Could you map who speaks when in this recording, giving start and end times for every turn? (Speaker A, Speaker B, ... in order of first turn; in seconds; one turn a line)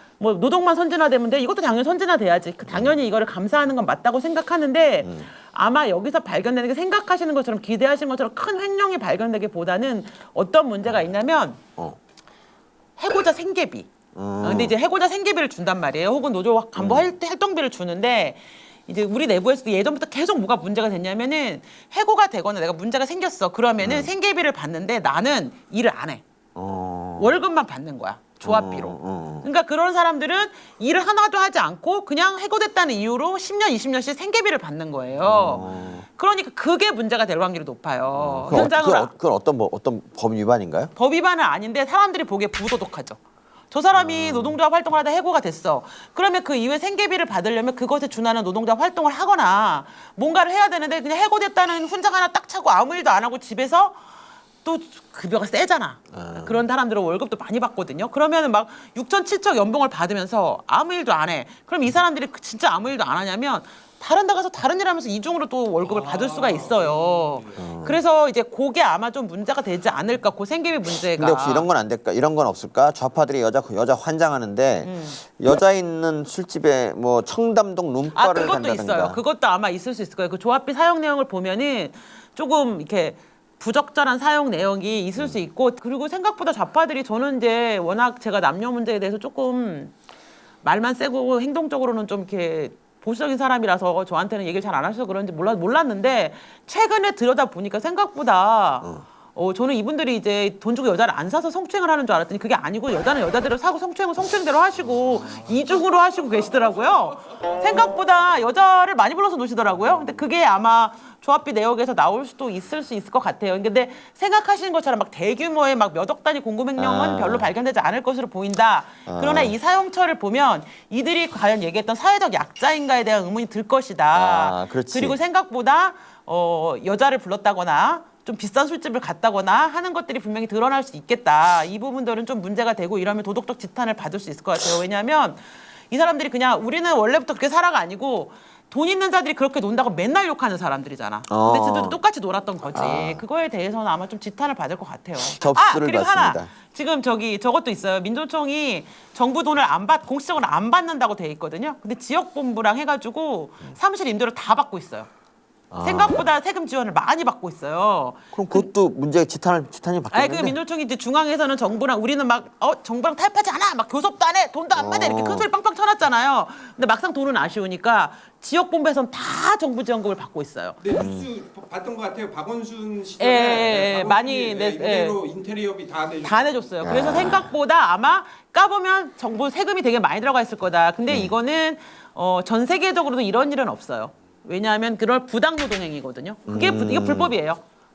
Speaker A: 0.2-11.6
Speaker B: 2.7-3.0
Speaker B: 5.0-5.3
Speaker A: 13.0-13.9
Speaker B: 14.1-14.7
Speaker A: 14.4-26.2
Speaker B: 16.8-17.1
Speaker B: 23.8-24.1
Speaker B: 26.5-27.4
Speaker A: 27.2-39.1
Speaker B: 28.4-29.5
Speaker B: 35.2-36.0
Speaker B: 38.1-40.9
Speaker A: 40.9-43.2
Speaker A: 43.7-54.0
Speaker B: 43.9-44.6
Speaker A: 54.6-71.7
Speaker B: 56.1-56.7
Speaker B: 67.5-68.0
Speaker B: 70.9-79.2
Speaker A: 74.8-75.2
Speaker A: 78.1-89.9
Speaker A: 90.6-155.1
Speaker B: 116.8-117.5
Speaker B: 119.0-119.5
Speaker B: 124.1-125.2
Speaker B: 141.3-142.0
Speaker B: 142.7-143.2
Speaker B: 145.2-146.5
Speaker B: 155.7-156.2
Speaker A: 155.8-158.7
Speaker B: 158.3-160.6
Speaker A: 160.1-170.8
Speaker B: 164.7-165.5
Speaker C: 170.8-176.7
Speaker B: 170.9-171.3
Speaker A: 173.2-175.2
Speaker A: 176.2-187.6
Speaker B: 176.8-177.5
Speaker B: 181.1-181.3
Speaker B: 186.5-187.3